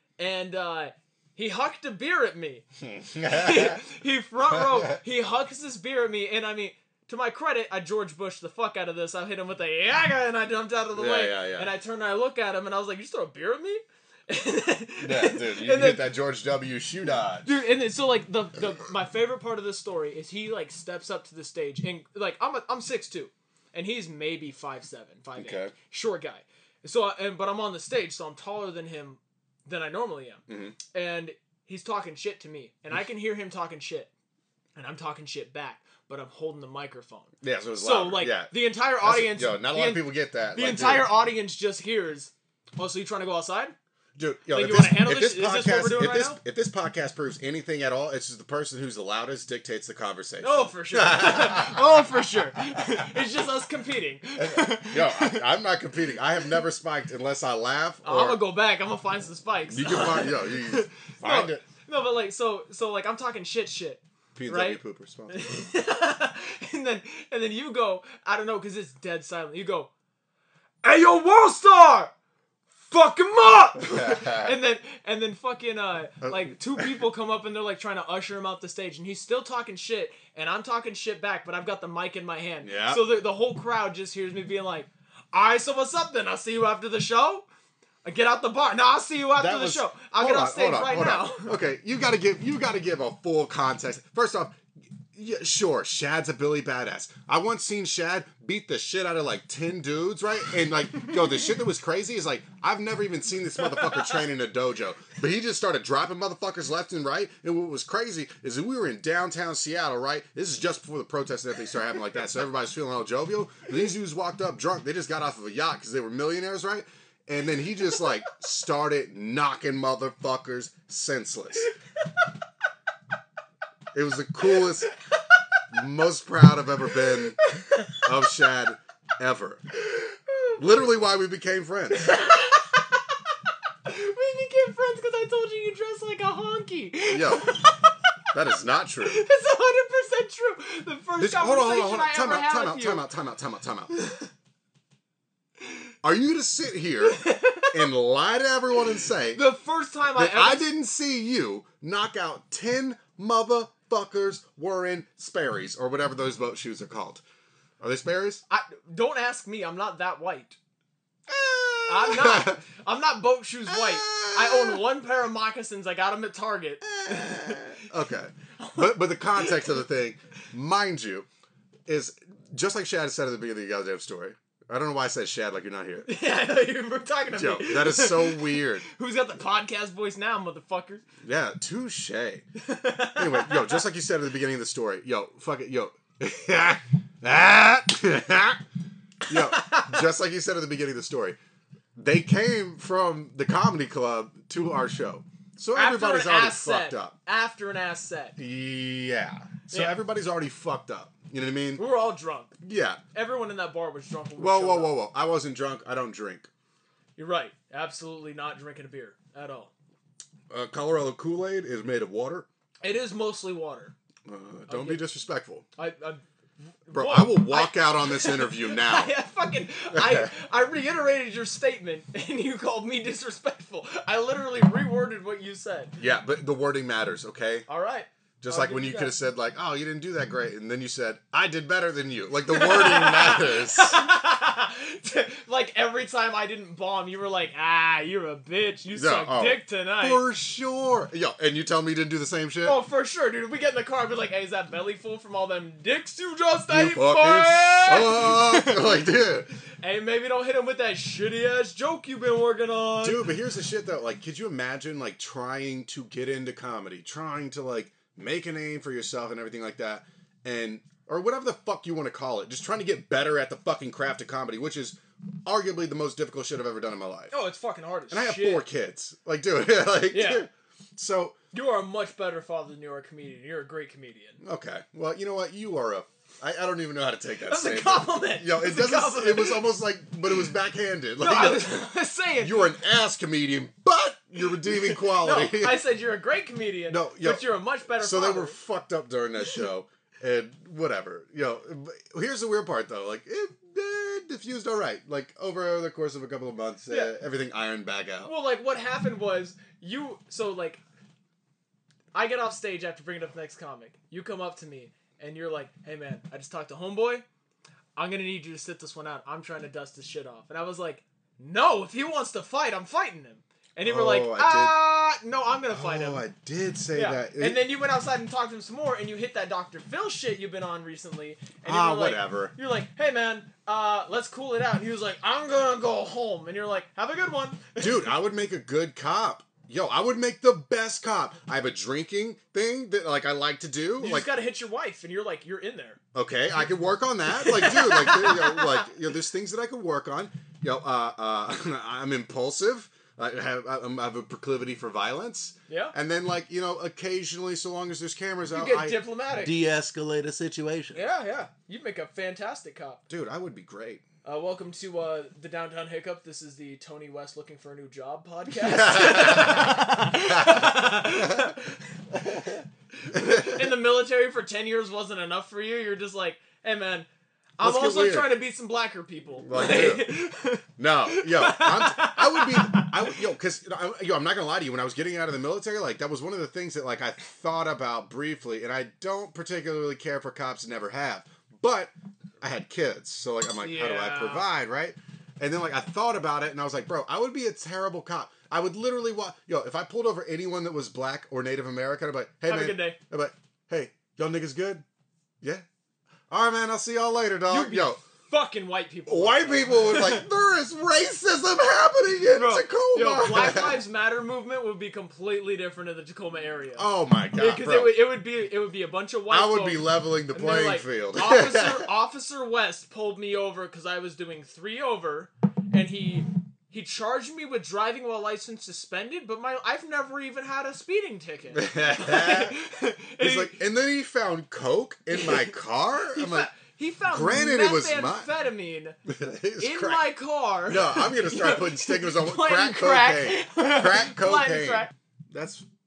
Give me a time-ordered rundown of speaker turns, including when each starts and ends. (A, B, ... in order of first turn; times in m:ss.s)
0:00.2-0:16.1 A
0:02.8-0:03.8 B
0:04.5-0:05.0 B
0:11.0-0:11.7 B
0:15.0-0:17.6 B
0:17.4-0:34.1 A
0:25.4-0:25.7 B
0:30.5-0:30.8 B
0:34.8-0:43.8 A
0:37.4-0:41.1 B
0:44.2-0:52.1 B
0:44.5-0:46.4 A
0:50.4-0:55.5 A
0:54.4-0:58.4 B
0:58.0-1:09.9 A
0:59.7-1:01.6 B
1:04.4-1:05.4 B
1:10.8-1:12.1 A
1:12.8-1:27.5 A
1:13.8-1:14.6 B
1:16.2-1:16.9 B
1:22.6-1:23.0 B
1:28.0-1:31.6 A
1:29.4-1:34.6 B
1:35.1-2:01.7 B
1:43.6-1:44.2 A
2:03.9-2:04.9 B
2:05.7-2:07.4 B
2:07.5-2:08.0 A
2:07.9-2:09.8 B
2:10.3-2:10.6 A
2:10.6-2:12.2 B
2:11.9-2:13.2 A
2:13.8-2:18.0 A
2:17.1-2:17.6 B
2:18.3-2:19.2 B
2:19.0-2:23.1 A
2:21.2-2:23.9 B
2:24.0-2:24.3 A
2:26.0-2:29.4 B
2:27.0-2:27.9 A
2:29.3-2:30.7 A
2:30.1-2:37.2 B
2:37.8-2:38.4 B
2:38.5-2:40.6 A
2:41.3-2:42.6 B
2:41.9-2:47.9 A
2:43.7-2:44.8 B
2:46.8-2:51.3 B
2:48.6-2:49.7 A
2:51.9-2:56.1 B
2:56.1-3:01.0 A
2:57.4-2:58.8 B
3:01.2-3:02.5 B
3:02.6-3:03.8 A
3:03.2-3:08.6 B
3:09.3-3:11.4 B
3:09.3-3:10.0 A
3:12.0-3:17.2 B
3:15.7-3:18.4 A
3:18.4-3:21.8 B
3:19.7-3:20.0 A
3:21.8-3:22.6 A
3:22.6-3:23.0 B
3:23.1-3:24.9 A
3:24.4-3:26.5 B
3:27.2-3:29.7 A
3:30.5-3:32.5 B
3:32.8-3:34.0 A
3:34.3-3:35.6 B
3:34.7-3:35.0 A
3:35.8-3:36.2 A
3:36.8-3:46.0 A
3:36.9-3:39.1 B
3:39.9-3:40.3 B
3:46.0-3:47.7 B
3:47.7-3:49.2 A
3:48.4-3:54.1 B
3:52.5-4:00.2 A
3:58.9-4:02.8 B
4:02.6-4:09.1 A
4:06.7-4:09.5 B
4:09.8-4:13.3 A
4:13.0-4:27.3 B
4:27.3-4:28.6 A
4:28.1-4:31.4 B
4:30.1-4:30.5 A
4:31.5-4:34.4 A
4:34.4-4:45.8 B
4:37.5-4:39.7 A
4:41.2-4:42.8 A
4:44.4-4:48.6 A
4:46.9-4:58.3 B
4:56.9-4:57.2 A
4:58.2-5:00.8 A
5:02.1-5:07.2 A
5:08.0-5:16.2 A
5:13.8-5:14.8 B
5:15.7-5:17.6 B
5:16.9-5:28.1 A
5:21.6-5:22.5 B
5:27.8-5:34.3 B
5:34.0-5:36.0 A
5:36.1-5:51.0 B
5:37.3-5:38.9 A
5:45.7-5:45.9 A
5:48.5-5:49.5 A
5:50.9-5:53.0 A
5:53.1-5:54.0 B
5:54.2-6:02.0 A
5:58.6-6:01.6 B
6:02.1-6:03.8 B
6:03.0-6:07.1 A
6:07.6-6:13.2 A
6:07.6-6:08.4 B
6:09.4-6:10.1 B
6:10.8-6:34.8 B
6:23.6-6:24.4 A
6:32.5-6:33.0 A
6:36.3-6:38.0 B
6:37.5-6:40.3 A
6:39.1-6:43.8 B
6:42.3-7:03.6 A
6:46.8-6:48.0 B
6:49.3-6:51.9 B
7:01.5-7:02.6 B
7:03.2-7:06.5 B
7:05.1-7:05.5 A
7:06.1-7:09.0 A
7:07.1-7:08.3 B
7:09.1-7:10.1 B
7:09.6-7:14.9 A
7:10.7-7:15.6 B